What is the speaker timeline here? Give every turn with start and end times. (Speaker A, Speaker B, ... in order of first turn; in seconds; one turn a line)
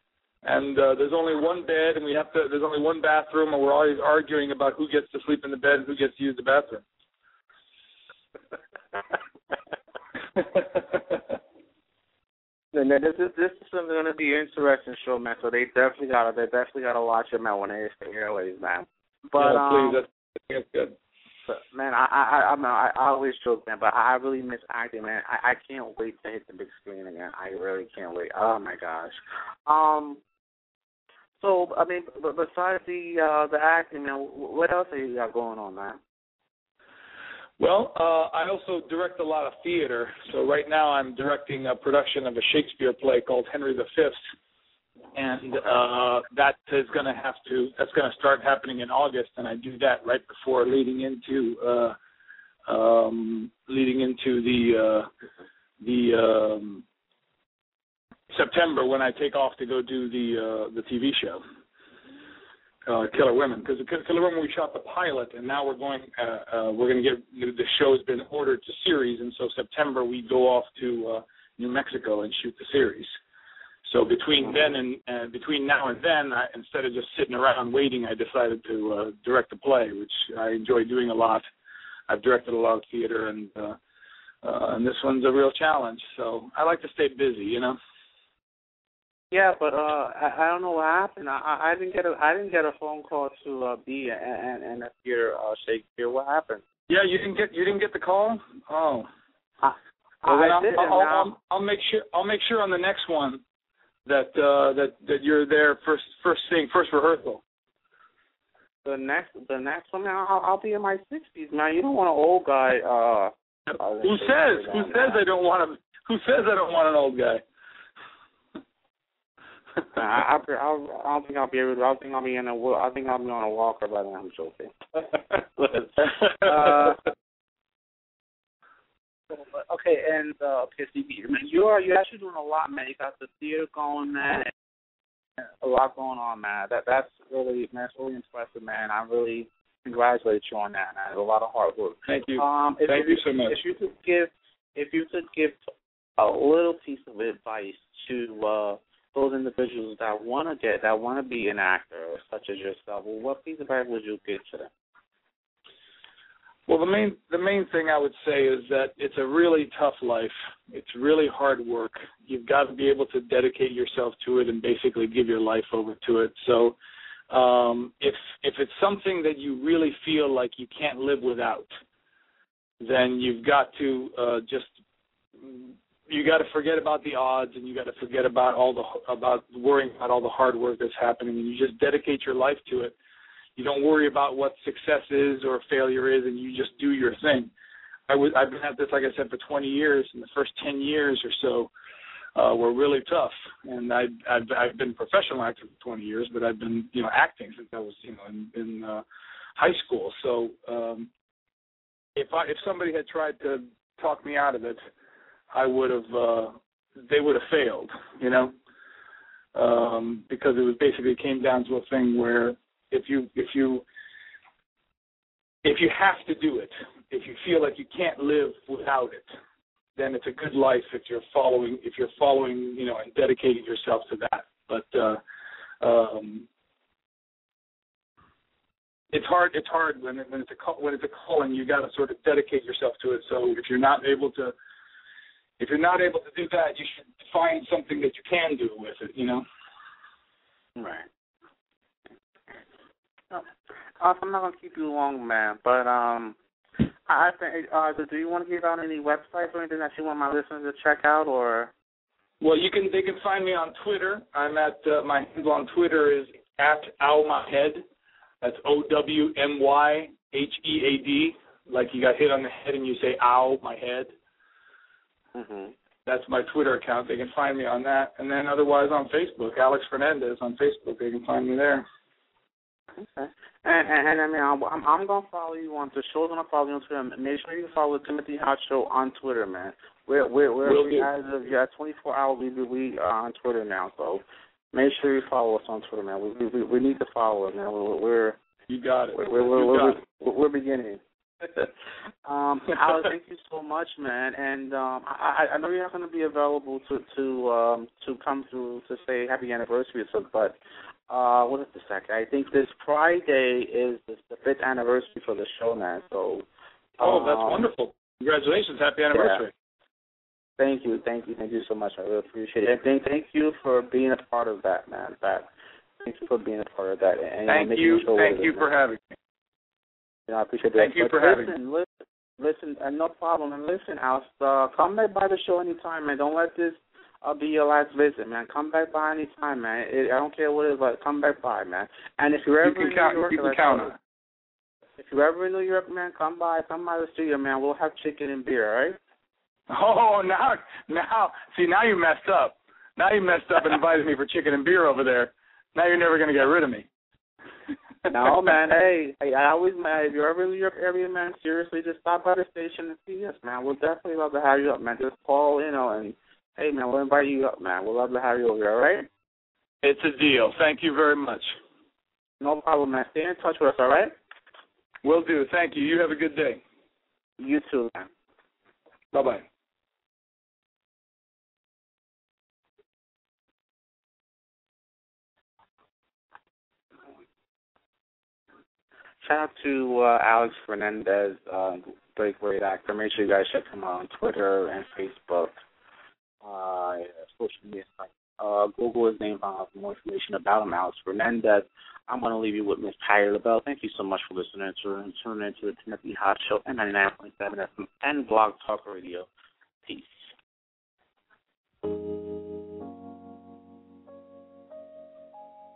Speaker A: 0.4-6.8
Speaker A: 10.4-11.2
Speaker B: 12.7-20.0
Speaker A: 19.4-20.9
Speaker B: 21.5-30.2
Speaker B: 31.4-36.0
Speaker A: 37.6-44.2
Speaker A: 45.1-52.0
Speaker A: 52.7-55.1
Speaker A: 55.8-56.8
Speaker A: 58.3-61.4
Speaker A: 62.9-73.1
Speaker A: 73.8-81.5
Speaker A: 82.1-83.8
Speaker A: 84.4-87.8
Speaker B: 89.3-96.6
Speaker A: 96.9-99.1
Speaker B: 99.6-101.3
Speaker A: 100.3-103.4
Speaker A: 104.1-107.4
Speaker B: 108.8-115.2
Speaker A: 113.7-117.4
Speaker B: 119.9-127.1
Speaker B: 129.3-134.5
Speaker B: 135.4-145.6
Speaker A: 142.1-143.6
Speaker B: 146.2-154.7
Speaker A: 156.7-166.8
Speaker A: 167.3-171.7
Speaker A: 172.8-174.7
Speaker A: 175.4-182.9
Speaker A: 183.6-187.5
Speaker A: 188.1-191.7
Speaker A: 192.3-199.0
Speaker A: 199.6-201.1
Speaker A: 202.2-204.8
Speaker A: 205.5-208.5
Speaker A: 209.6-213.8
Speaker A: 215.6-219.3
Speaker A: 220.0-225.2
Speaker A: 225.8-226.5
Speaker A: 229.1-234.5
Speaker A: 235.6-239.4
Speaker B: 240.8-241.1
Speaker B: 244.0-246.4
Speaker B: 247.1-251.7
Speaker A: 252.4-257.8
Speaker A: 258.4-264.1
Speaker B: 265.4-265.7
Speaker A: 266.1-271.9
Speaker B: 273.0-288.4
Speaker A: 280.7-281.1
Speaker A: 288.7-290.0
Speaker B: 289.1-291.0
Speaker B: 292.2-300.6
Speaker B: 301.1-306.5
Speaker B: 307.0-307.6
Speaker A: 307.0-309.5
Speaker B: 309.1-309.4
Speaker B: 310.6-315.5
Speaker B: 316.0-318.6
Speaker A: 317.5-319.0
Speaker B: 320.3-333.9
Speaker A: 320.8-321.5
Speaker A: 332.6-334.0
Speaker B: 335.0-339.0
Speaker A: 339.7-346.9
Speaker B: 348.1-359.1
Speaker A: 359.8-361.5
Speaker B: 362.4-364.1
Speaker A: 365.0-366.6
Speaker B: 367.4-368.1
Speaker A: 369.1-369.4
Speaker B: 379.2-385.5
Speaker B: 386.4-399.3
Speaker B: 399.8-400.3